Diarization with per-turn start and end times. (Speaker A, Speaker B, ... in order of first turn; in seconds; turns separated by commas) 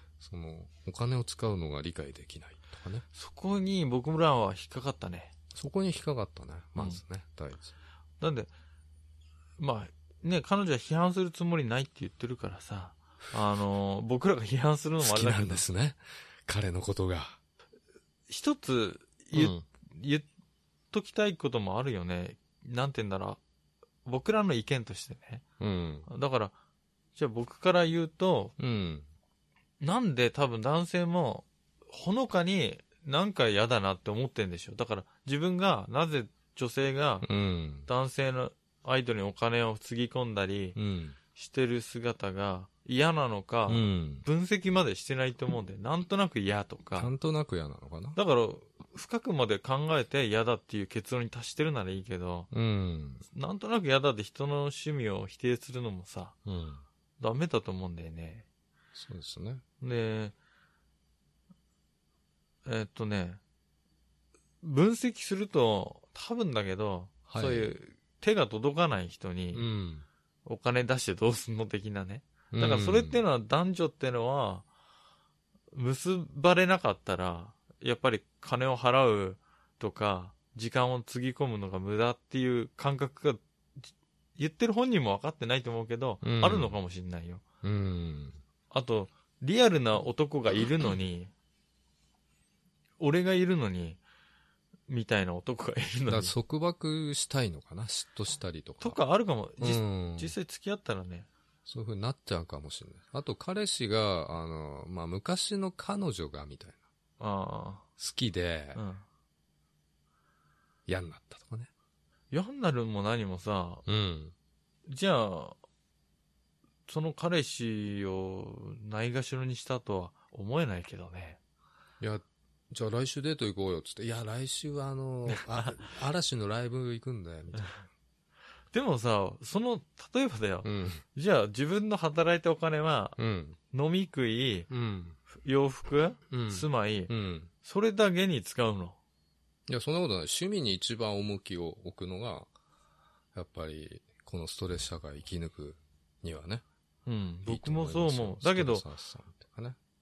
Speaker A: 0.2-3.0, Speaker B: 3.1-5.3, Speaker A: 5.5-7.7, Speaker B: 8.2-8.5, Speaker B: 9.6-15.6, Speaker A: 15.0-17.4, Speaker B: 18.3-20.2, Speaker A: 19.3-19.6, Speaker B: 20.9-23.4, Speaker B: 24.0-25.4, Speaker A: 25.6-26.1, Speaker B: 26.1-26.5, Speaker B: 27.1-28.5, Speaker A: 28.6-29.1, Speaker B: 29.8-37.3, Speaker A: 37.2-37.9, Speaker B: 37.9-40.8, Speaker A: 40.7-41.2, Speaker B: 41.3-47.1, Speaker A: 43.7-44.2, Speaker A: 47.0-48.2, Speaker B: 48.1-52.5, Speaker A: 52.5-53.2, Speaker B: 53.3-56.4, Speaker A: 56.5-56.8, Speaker B: 57.2-58.4, Speaker A: 58.9-59.6, Speaker B: 59.8-60.3, Speaker B: 62.6-63.4, Speaker B: 64.6-69.7, Speaker A: 67.3-67.7, Speaker A: 69.5-70.0, Speaker B: 70.5-74.6, Speaker A: 72.5-73.2, Speaker B: 75.7-83.4, Speaker B: 84.4-87.4, Speaker A: 86.2-86.8, Speaker A: 87.6-88.4, Speaker B: 88.7-91.3, Speaker B: 93.0-94.0, Speaker B: 94.9-96.3, Speaker A: 96.1-99.0, Speaker B: 98.8-101.3, Speaker A: 99.6-100.3, Speaker A: 101.7-106.8, Speaker B: 107.2-107.8, Speaker A: 108.0-108.8, Speaker B: 108.7-109.0, Speaker A: 110.9-111.7, Speaker B: 112.3-113.8, Speaker A: 113.8-114.3, Speaker B: 114.9-115.6, Speaker B: 116.9-121.4, Speaker A: 122.0-127.8, Speaker B: 125.3-125.8, Speaker B: 128.7-133.2, Speaker A: 130.6-131.0, Speaker A: 133.2-133.6, Speaker B: 133.7-134.7, Speaker A: 134.7-135.2, Speaker B: 135.3-137.1, Speaker A: 136.3-137.5, Speaker B: 137.6-138.9, Speaker A: 139.7-142.5, Speaker A: 143.3-146.6, Speaker B: 147.1-148.8, Speaker A: 147.4-149.8